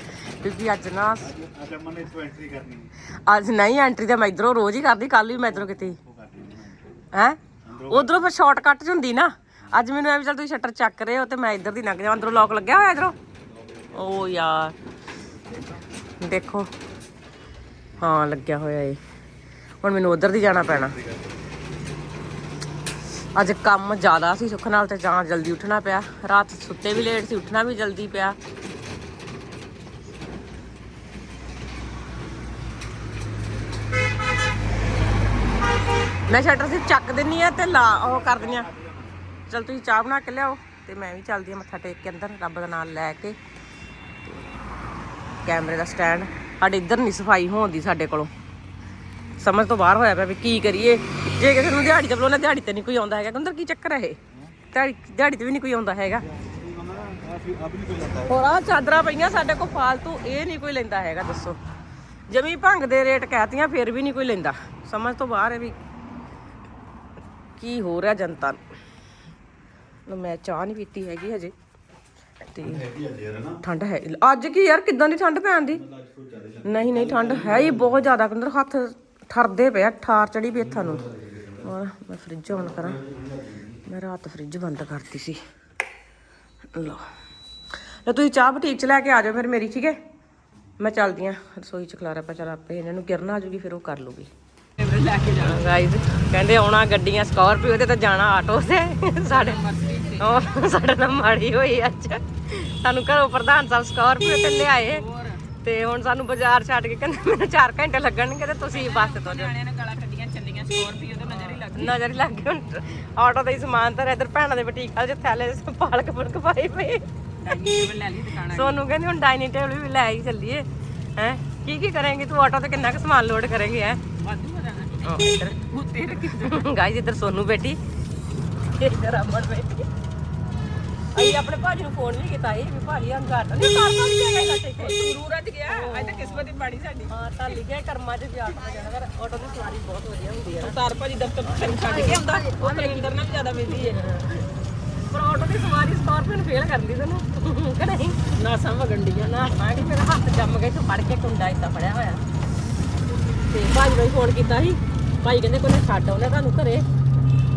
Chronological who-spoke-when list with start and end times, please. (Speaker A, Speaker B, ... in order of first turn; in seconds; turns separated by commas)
Speaker A: 0.4-1.4, Speaker B: 1.3-2.9, Speaker A: 3.3-6.0, Speaker B: 6.1-6.8, Speaker A: 7.1-13.1, Speaker B: 7.7-8.1, Speaker A: 13.9-14.7, Speaker A: 16.2-16.7, Speaker A: 18.0-19.0, Speaker A: 19.8-20.9, Speaker A: 23.3-28.4, Speaker A: 36.3-38.7, Speaker A: 39.5-43.4, Speaker A: 44.2-44.5, Speaker A: 45.4-48.3, Speaker A: 49.4-54.2, Speaker A: 54.7-56.2, Speaker B: 56.3-58.3, Speaker A: 58.2-61.6, Speaker A: 62.3-65.8, Speaker A: 67.6-68.6, Speaker A: 70.1-71.5, Speaker A: 72.5-72.9, Speaker B: 72.9-73.6, Speaker A: 73.6-75.8, Speaker B: 75.9-76.6, Speaker A: 76.6-81.0, Speaker A: 81.6-83.0, Speaker A: 83.8-85.4, Speaker A: 86.7-87.0, Speaker A: 88.0-90.0, Speaker A: 90.8-94.3, Speaker C: 94.8-95.7, Speaker A: 95.4-99.6, Speaker C: 99.3-100.7, Speaker A: 100.2-105.0, Speaker C: 104.9-105.4, Speaker A: 105.6-109.5, Speaker C: 108.7-112.0, Speaker A: 111.4-117.7, Speaker C: 117.4-118.8, Speaker A: 118.5-120.7, Speaker A: 121.2-124.0, Speaker C: 124.2-126.7, Speaker A: 125.0-125.5, Speaker A: 126.4-127.8, Speaker A: 128.7-129.9, Speaker A: 131.1-135.1, Speaker C: 134.8-137.6, Speaker A: 135.7-136.4, Speaker A: 137.1-140.8, Speaker C: 140.5-144.2, Speaker A: 141.5-143.2, Speaker A: 143.8-144.3, Speaker A: 145.1-148.2, Speaker C: 148.3-149.3, Speaker A: 149.2-152.2, Speaker A: 153.5-156.8